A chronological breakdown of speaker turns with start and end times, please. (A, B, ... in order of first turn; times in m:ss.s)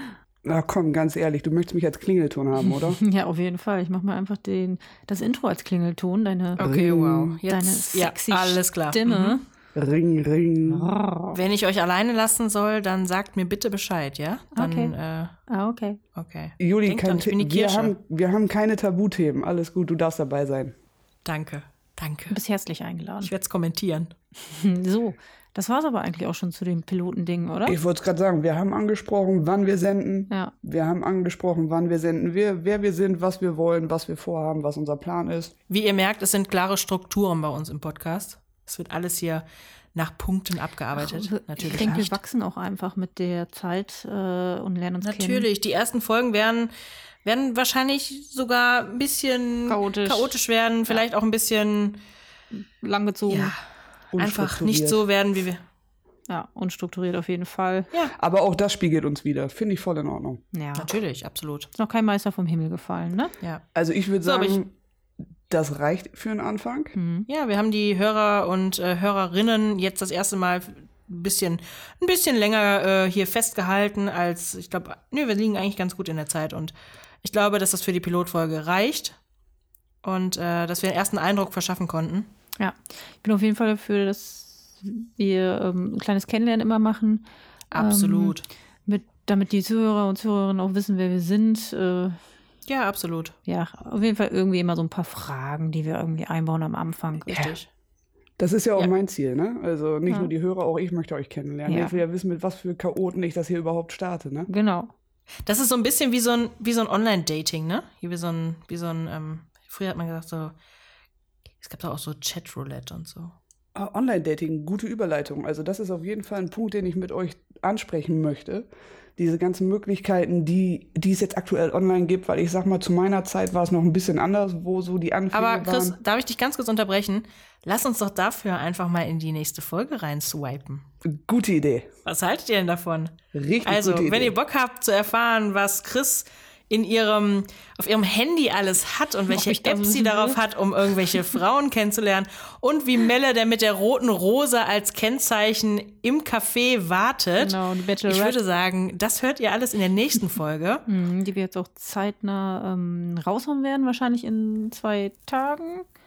0:00.4-0:03.0 A
0:02.6-0:06.7 B
0:06.6-0:09.4 C
0:06.6-0:07.4 A
0:07.5-0:09.4 B
0:09.8-0:11.0 A
0:10.7-0:11.4 B
0:11.3-0:15.3 C
0:14.6-0:15.0 B
0:15.5-0:16.0 B
0:16.2-0:18.0 C
0:16.6-0:20.8 A
0:21.2-0:22.4 C
0:22.3-0:23.3 B
0:23.2-0:24.1 C
0:24.4-0:27.8 B
0:27.7-0:35.5 A
0:35.7-0:42.2 C
0:41.0-0:45.5 B
0:45.0-0:46.7 C
0:47.2-0:52.0 C
0:49.7-0:51.0 B
0:52.5-0:53.5 B
0:53.3-0:53.6 C
0:54.1-0:55.1 A
0:54.2-0:55.6 C
0:56.3-0:57.9 B
0:58.2-1:00.4 A
1:00.5-1:00.9 B
1:00.8-1:01.7 C
1:01.8-1:03.3 B
1:03.8-1:04.7 A
1:04.2-1:04.6 C
1:05.5-1:06.9 A
1:07.0-1:07.3 B
1:07.3-1:19.2 C
1:20.0-1:22.3 C
1:22.6-1:32.2 B
1:27.7-1:28.5 C
1:32.7-1:33.4 C
1:33.5-1:37.4 B
1:37.3-1:37.7 C
1:37.3-1:37.6 A
1:38.4-1:44.5 A
1:41.7-1:42.0 B
1:44.5-1:44.9 B
1:45.4-1:50.5 C
1:51.6-1:53.4 C
1:53.8-2:06.0 A
2:05.3-2:10.8 C
2:11.1-2:11.9 A
2:12.0-2:30.8 C
2:13.3-2:14.4 A
2:19.3-2:20.4 B
2:27.4-2:28.4 B
2:30.9-2:35.8 B